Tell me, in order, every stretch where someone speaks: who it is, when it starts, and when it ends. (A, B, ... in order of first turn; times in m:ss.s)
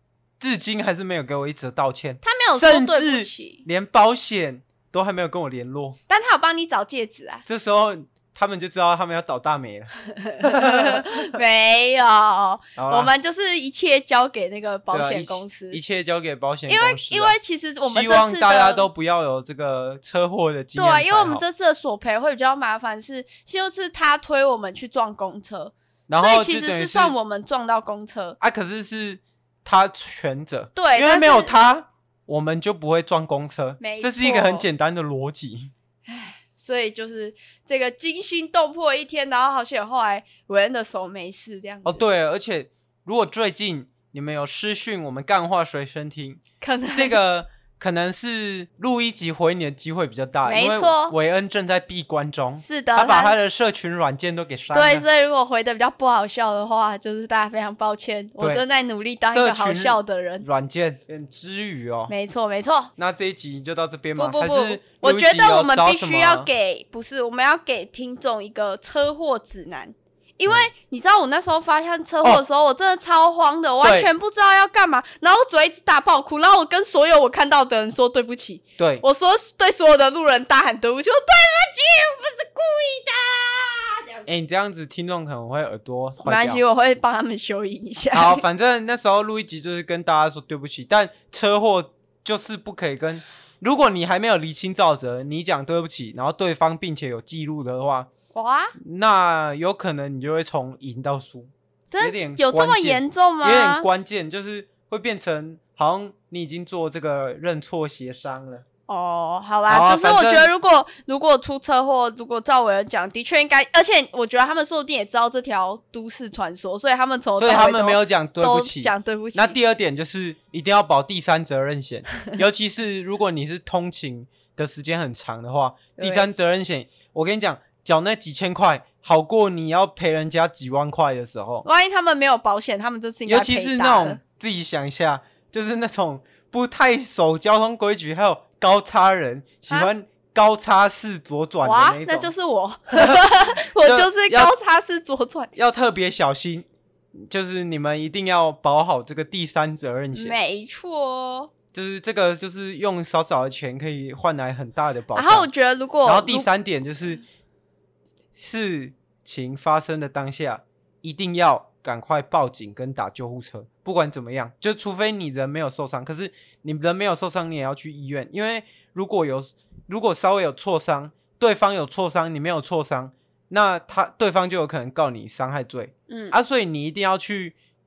0:00.4-0:06.0 A
0:02.2-0:03.6 B
0:06.1-0:07.4 B
0:07.5-0:11.3 A
0:10.2-0:15.8 B
0:12.8-0:13.1 A
0:14.9-0:21.4 A
0:16.7-0:18.9 B
0:20.8-0:28.4 B
0:26.1-0:27.2 A
0:28.4-0:35.7 A
0:30.8-0:31.5 B
0:33.8-0:34.7 B
0:36.1-0:42.0 B
0:41.8-0:55.1 A
0:46.6-0:47.2 B
0:50.4-0:51.2 B
0:52.6-0:53.4 B
0:54.7-1:00.4 B
0:59.3-1:02.1 A
1:02.1-1:02.9 B
1:03.0-1:06.5 A
1:04.2-1:24.2 B
1:13.8-1:14.1 A
1:18.8-1:19.0 A
1:24.3-1:26.6 A
1:26.2-1:28.4 B
1:28.1-1:38.1 A
1:38.3-1:38.7 B
1:38.8-1:48.6 A
1:41.9-1:43.9 B
1:48.9-1:59.6 B
1:49.7-1:50.5 A
1:57.4-2:11.7 A
2:06.0-2:06.3 B
2:11.6-2:14.2 B
2:13.3-2:22.3 A
2:21.6-2:25.5 B
2:22.9-2:23.2 A
2:23.8-2:24.5 A
2:25.6-2:30.4 A
2:30.1-2:31.5 B
2:31.7-2:35.5 A
2:35.1-2:36.5 B
2:36.0-2:37.2 A
2:38.4-2:57.6 A
2:56.1-2:56.4 B